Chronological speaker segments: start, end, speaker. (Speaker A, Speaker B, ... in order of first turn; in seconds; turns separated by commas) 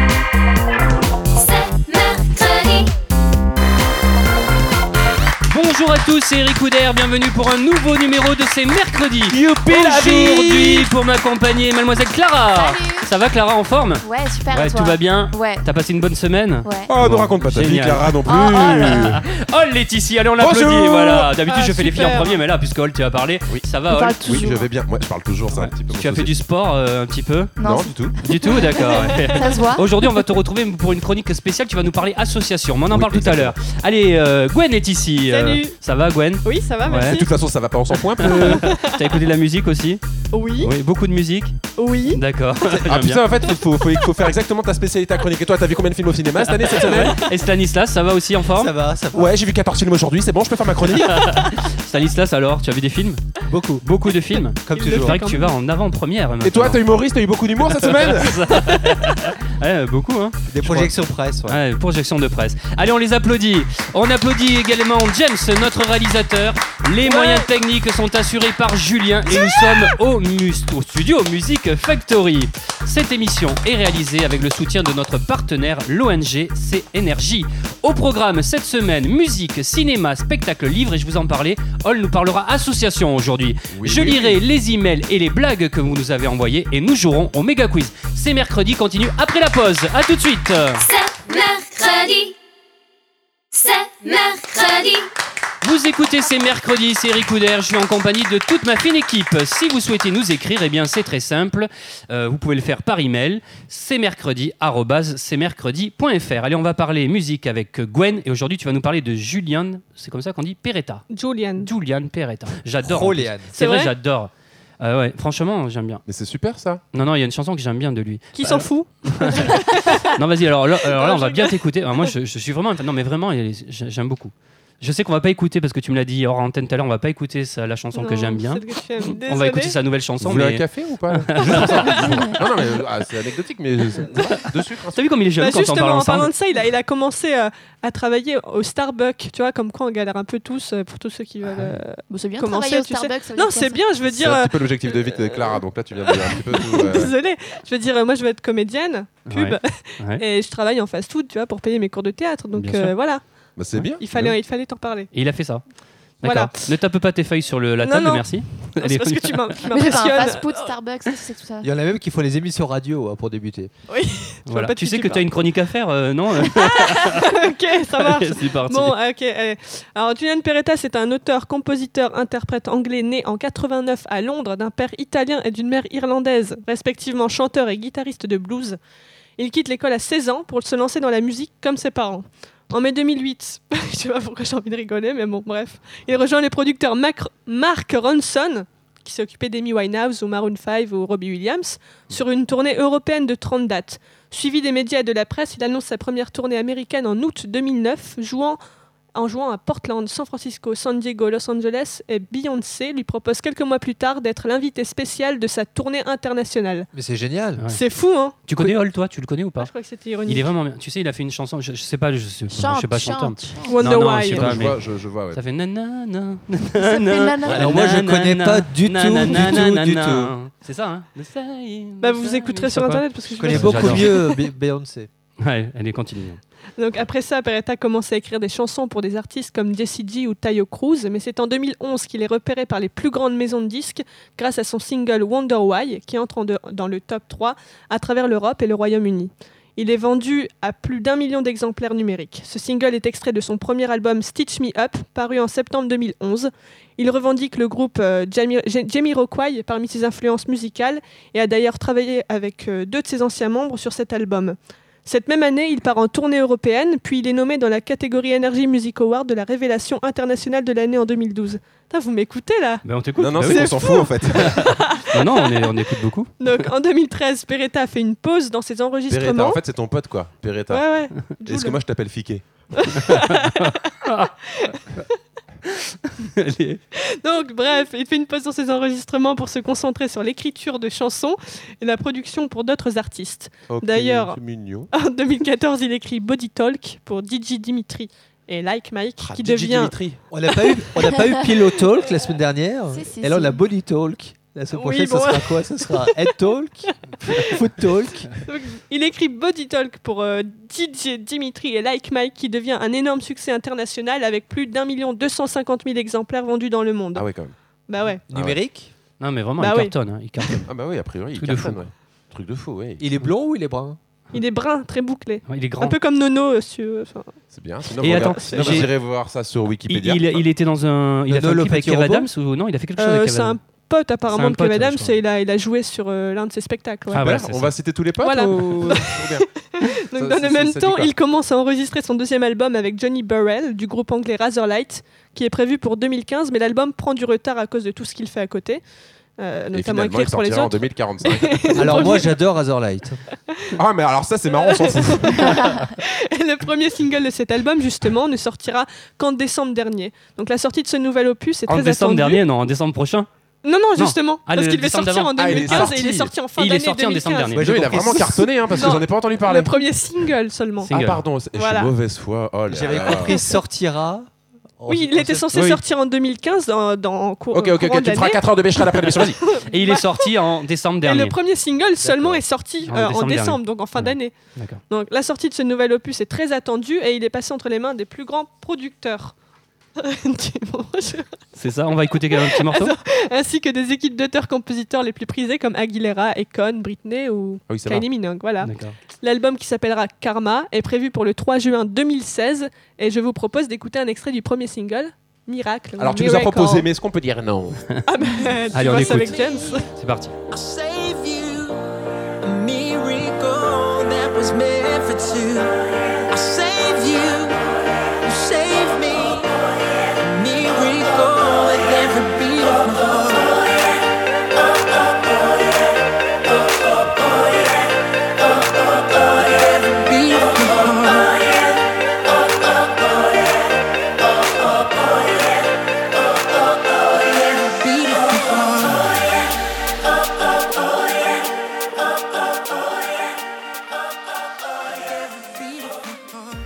Speaker A: 1.3-2.9, Speaker B: 5.5-24.5, Speaker C: 9.3-10.9, Speaker D: 12.5-13.1, Speaker D: 14.0-15.7, Speaker D: 16.6-16.9, Speaker E: 16.9-19.2, Speaker D: 18.2-19.1, Speaker E: 20.4-21.3, Speaker F: 21.4-22.4, Speaker D: 23.9-24.7, Speaker E: 24.2-26.4, Speaker B: 25.5-27.6, Speaker D: 27.6-27.9, Speaker E: 27.6-28.1, Speaker B: 28.2-37.2, Speaker D: 28.4-29.9, Speaker F: 28.9-29.5, Speaker E: 32.9-33.5, Speaker F: 35.3-35.8, Speaker F: 36.4-37.3, Speaker E: 37.1-38.6, Speaker B: 38.2-40.0, Speaker F: 38.2-39.2, Speaker F: 40.3-40.7, Speaker B: 40.6-41.5, Speaker F: 41.8-42.2, Speaker B: 42.1-43.2, Speaker E: 42.9-47.2, Speaker B: 46.4-48.7, Speaker C: 48.5-49.4, Speaker E: 49.1-51.4, Speaker B: 50.9-53.2, Speaker C: 53.5-53.8, Speaker B: 53.8-56.8, Speaker C: 54.6-55.2, Speaker F: 54.7-55.5, Speaker E: 56.4-58.4, Speaker B: 57.6-60.9, Speaker C: 60.5-61.6, Speaker B: 61.5-90.8, Speaker F: 67.0-67.5, Speaker E: 83.7-84.4, Speaker A: 90.8-92.3, Speaker A: 93.5-95.1, Speaker B: 95.6-111.0, Speaker F: 111.1-111.7, Speaker B: 111.6-116.0, Speaker C: 112.8-113.5, Speaker F: 113.6-113.9, Speaker E: 116.0-116.8, Speaker B: 116.9-132.1, Speaker F: 118.3-120.1, Speaker F: 120.8-122.1, Speaker F: 127.9-129.8, Speaker E: 130.2-135.0, Speaker F: 131.5-132.2, Speaker B: 134.2-136.3, Speaker F: 135.4-153.2, Speaker B: 141.4-141.8, Speaker D: 142.1-143.9, Speaker E: 144.0-147.1, Speaker B: 149.3-150.2, Speaker B: 152.5-152.9, Speaker E: 153.6-154.4, Speaker F: 154.0-155.1, Speaker B: 155.1-155.6, Speaker B: 156.2-159.6, Speaker F: 156.2-156.5, Speaker F: 157.8-161.2, Speaker D: 159.7-161.7, Speaker C: 161.6-163.7, Speaker F: 163.9-165.2, Speaker B: 164.5-168.9, Speaker F: 166.4-178.8, Speaker F: 179.4-198.6, Speaker F: 199.1-206.9, Speaker C: 206.9-207.6, Speaker F: 207.7-208.4, Speaker B: 208.5-209.7, Speaker F: 209.6-210.5, Speaker B: 210.3-214.8, Speaker D: 212.5-213.8, Speaker F: 213.6-214.7, Speaker E: 214.3-215.4, Speaker B: 215.3-224.1, Speaker D: 216.8-217.6, Speaker C: 217.5-220.3, Speaker F: 222.0-224.4, Speaker C: 223.4-225.1, Speaker B: 225.4-226.4, Speaker F: 226.8-265.7, Speaker B: 262.8-263.8, Speaker E: 263.2-264.7, Speaker B: 264.3-266.7, Speaker F: 266.4-269.6, Speaker E: 269.1-270.8, Speaker F: 270.7-271.8, Speaker E: 271.4-273.0, Speaker F: 272.7-273.9, Speaker B: 273.1-274.3, Speaker F: 274.5-274.8, Speaker B: 275.7-276.8, Speaker F: 277.0-284.4, Speaker E: 283.7-284.9, Speaker F: 284.9-289.9, Speaker E: 289.2-290.2, Speaker C: 290.3-298.4, Speaker F: 290.5-290.9, Speaker D: 292.9-293.6, Speaker F: 294.7-296.2, Speaker F: 297.3-297.6, Speaker F: 298.4-307.3, Speaker E: 307.1-307.5, Speaker F: 307.9-308.2, Speaker C: 308.3-308.9, Speaker E: 308.3-308.6, Speaker B: 309.2-310.7, Speaker F: 309.6-310.6, Speaker E: 310.6-313.0, Speaker B: 311.4-311.8, Speaker C: 313.0-314.0, Speaker F: 314.3-317.4, Speaker B: 315.5-315.9, Speaker E: 317.5-320.4, Speaker B: 318.0-318.9, Speaker F: 318.4-318.8, Speaker C: 318.5-318.9, Speaker B: 319.9-323.6, Speaker C: 321.3-322.3, Speaker F: 323.0-327.3, Speaker B: 324.3-325.1, Speaker B: 327.1-327.7, Speaker E: 327.2-329.5, Speaker F: 328.2-338.8, Speaker E: 330.2-331.1, Speaker F: 339.4-342.4, Speaker E: 339.7-342.3, Speaker C: 341.8-343.2, Speaker E: 343.7-345.7, Speaker F: 344.5-352.4, Speaker B: 351.7-353.3, Speaker F: 353.6-360.9, Speaker B: 354.0-356.0, Speaker E: 355.4-356.3, Speaker B: 356.6-357.6, Speaker C: 357.6-358.5, Speaker E: 357.6-359.7, Speaker B: 360.8-361.2, Speaker E: 360.9-363.4, Speaker F: 361.5-361.9, Speaker C: 362.7-364.3, Speaker F: 363.0-363.6, Speaker C: 364.8-365.6, Speaker F: 364.9-370.3, Speaker E: 365.5-365.8, Speaker E: 367.5-369.4, Speaker B: 369.6-371.3, Speaker F: 371.0-374.3, Speaker C: 372.0-372.4, Speaker B: 372.9-374.8, Speaker F: 374.9-379.3, Speaker F: 380.0-381.3, Speaker B: 381.6-382.9, Speaker F: 382.4-396.9, Speaker E: 387.7-388.0, Speaker B: 388.6-388.9, Speaker E: 396.0-397.8, Speaker F: 398.1-399.9, Speaker B: 398.7-399.4, Speaker G: 399.1-399.8, Speaker B: 399.9-400.3, Speaker G: 400.5-401.8, Speaker G: 402.4-414.0, Speaker G: 414.9-415.8, Speaker G: 416.9-417.9, Speaker G: 418.4-421.6, Speaker G: 425.2-425.4, Speaker G: 427.0-429.3, Speaker G: 435.0-436.2